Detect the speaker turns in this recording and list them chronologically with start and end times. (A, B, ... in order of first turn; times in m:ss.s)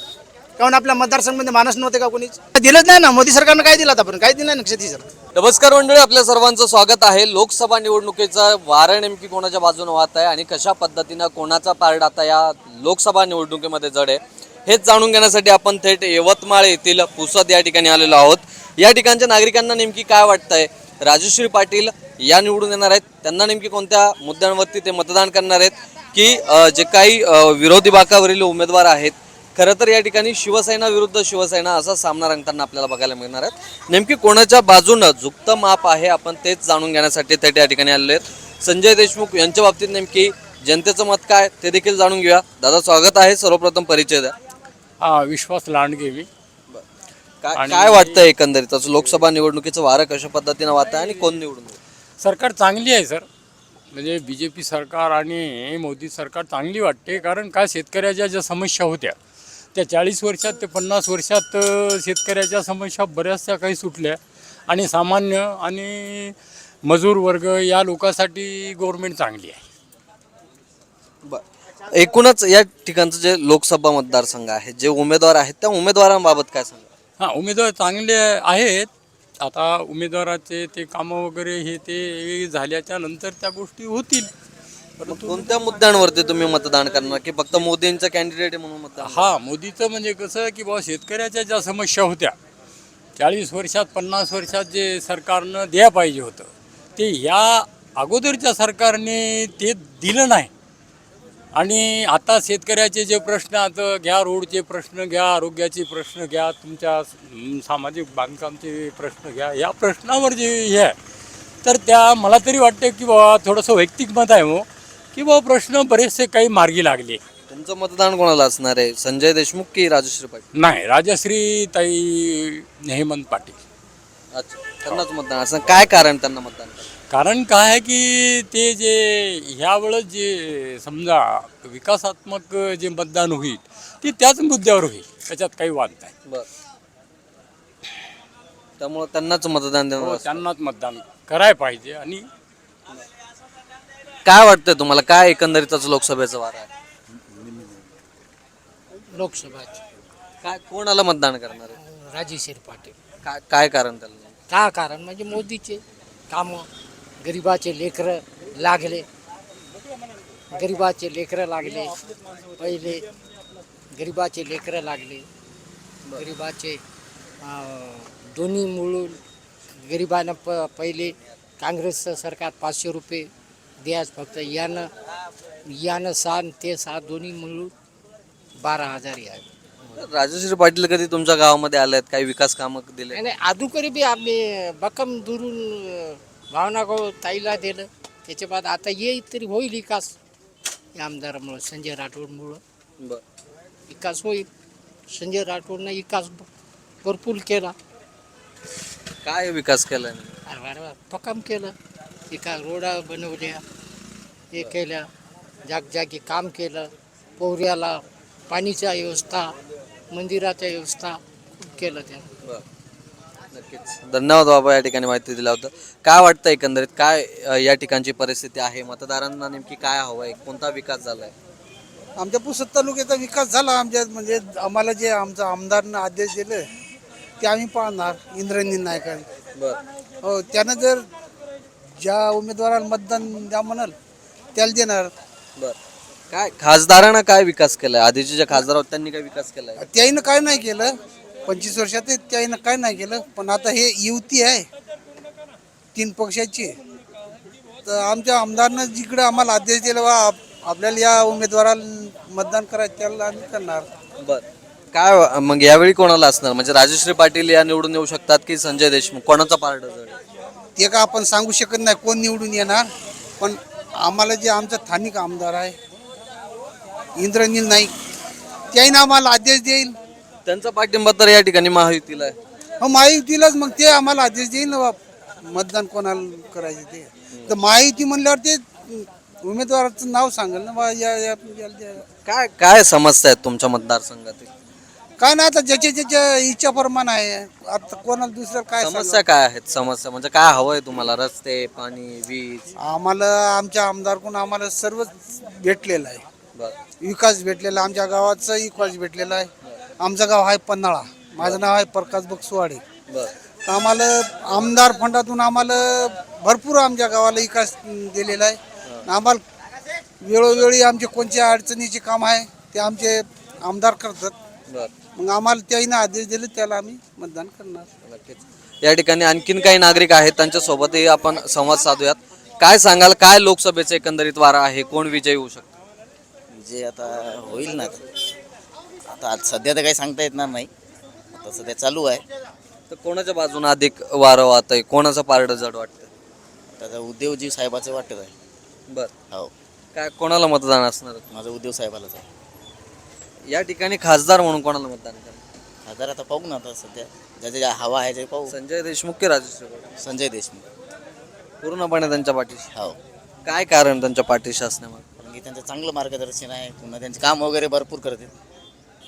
0:00.6-0:05.1 A
0:05.4-0:44.3 B
0:45.0-0:46.3 C
0:47.4-0:51.8 B
0:47.6-0:48.4 C
0:49.0-0:49.2 C
0:51.0-0:51.2 C
0:52.2-0:53.3 C
0:53.9-0:59.2 C
0:59.7-1:09.7 C
1:11.2-1:16.9 B
1:17.2-1:24.3 C
1:25.0-1:25.4 C
1:25.1-1:29.3 B
1:29.0-1:32.4 C
1:33.2-1:40.5 C
1:41.5-1:51.0 C
1:51.6-1:57.2 C
1:57.5-2:00.4 B
2:00.5-2:03.6 C
2:04.3-2:06.9 B
2:05.7-2:06.0 C
2:07.1-2:16.1 C
2:18.8-2:20.4 B
2:20.0-2:22.3 C
2:24.2-2:26.7 B
2:29.1-2:29.8 D
2:30.4-2:31.7 B
2:31.8-2:32.9 D
2:33.2-2:34.4 B
2:34.5-2:35.8 D
2:36.3-2:36.7 D
2:37.2-2:39.0 D
2:40.5-2:42.0 D
2:42.6-2:43.0 D
2:44.0-2:45.3 D
2:46.1-2:46.8 D
2:47.4-2:49.2 D
2:49.9-2:53.3 D
2:53.8-2:54.9 D
2:55.8-2:57.7 D
2:58.6-2:59.4 D
2:59.9-3:03.2 B
3:03.1-3:10.1 D
3:11.0-3:12.6 D
3:13.9-3:14.5 D
3:15.1-3:16.4 D
3:17.0-3:17.7 D
3:19.2-3:20.3 B
3:20.5-3:21.7 D
3:22.3-3:23.6 D
3:24.5-3:25.0 D
3:25.7-3:26.9 D
3:27.4-3:28.0 D
3:28.5-3:29.5 D
3:30.1-3:32.3 D
3:33.5-3:41.3 B
3:42.2-3:46.6 E
3:47.4-3:49.3 E
3:50.2-3:51.1 E
3:52.0-3:53.9 E
3:54.6-3:55.1 E
3:56.3-3:59.9 B
3:59.8-4:00.9 E
4:01.5-4:04.7 E
4:06.0-4:06.7 E
4:07.9-4:13.9 E
4:14.2-4:20.2 B
4:20.8-4:22.8 E
4:23.4-4:25.8 E
4:27.2-4:27.9 E
4:28.7-4:29.9 E
4:30.5-4:32.4 B
4:32.8-4:42.0 E
4:42.1-4:44.5 B
4:45.2-4:49.2 E
4:48.8-4:52.7 B
4:52.8-4:56.2 E
4:57.0-5:02.8 E
5:03.7-5:09.4 E
5:10.2-5:14.4 E
5:15.2-5:17.9 E
5:18.0-5:25.7 B
5:26.5-5:28.0 F
5:29.1-5:30.7 F
5:31.3-5:32.2 F
5:32.9-5:36.1 B
5:36.8-5:38.3 F
5:40.0-5:41.2 B
5:41.3-5:42.2 F
5:43.5-5:45.4 B
5:45.8-5:48.5 F
5:48.5-5:49.9 B
5:50.0-5:50.6 F
5:51.6-5:52.7 B
5:53.5-5:55.0 B
5:55.2-5:58.3 F